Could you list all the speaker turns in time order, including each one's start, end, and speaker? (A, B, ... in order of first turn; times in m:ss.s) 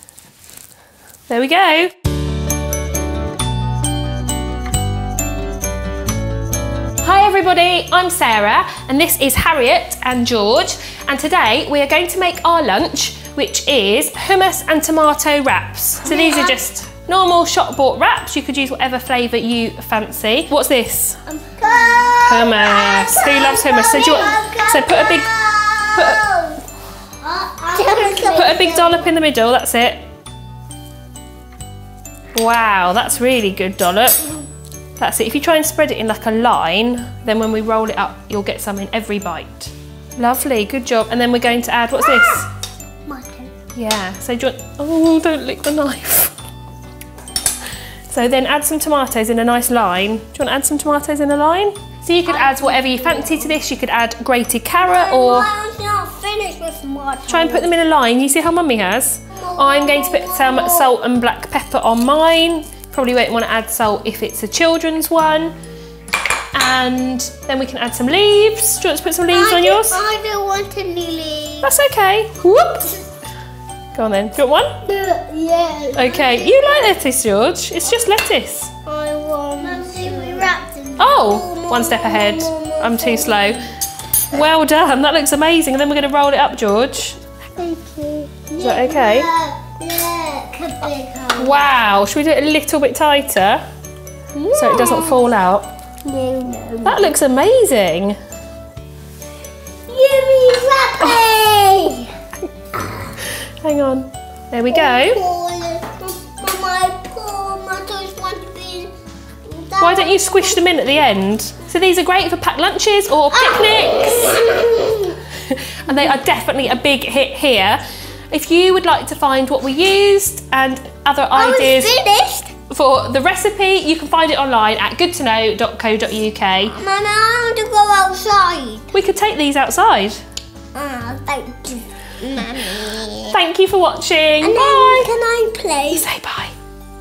0:01.3-0:01.9 A
0:07.0-0:21.2 A
0:16.0-0:16.6 B
0:21.3-0:26.6 B
0:22.2-0:25.3 A
0:26.0-0:26.2 A
0:27.2-0:29.1 B
0:27.8-0:30.0 A
0:32.4-0:34.3 A
0:35.0-0:42.5 A
0:42.0-0:42.4 B
0:43.1-0:43.5 B
0:43.8-0:46.4 A
0:48.1-0:55.5 A
0:52.3-0:53.6 B
0:54.8-0:57.7 B
0:57.3-1:05.5 A
0:59.3-1:00.9 B
1:06.5-1:10.0 A
1:09.3-1:11.7 B
1:11.6-1:13.0 A
1:14.0-1:14.8 A
1:14.8-1:16.9 B
1:16.0-1:18.7 A
1:18.9-1:23.6 B
1:21.0-1:23.7 A
1:24.3-1:27.2 A
1:27.6-1:31.7 B
1:28.6-1:29.3 A
1:31.4-1:33.6 A
1:34.4-1:35.3 B
1:34.5-1:35.7 A
1:36.0-1:37.2 B
1:36.8-1:38.2 A
1:39.9-1:42.1 B
1:42.8-1:43.1 B
1:43.4-1:45.2 A
1:44.7-1:48.9 B
1:49.4-1:50.8 B
1:49.8-1:54.5 A
1:53.3-1:55.2 B
1:55.3-2:02.0 A
2:01.3-2:02.5 B
2:02.7-2:06.8 A
2:06.7-2:08.9 B
2:08.9-2:10.2 A
2:10.7-2:13.4 B
2:13.3-2:15.1 A
2:14.4-2:16.1 B
2:15.9-2:16.6 A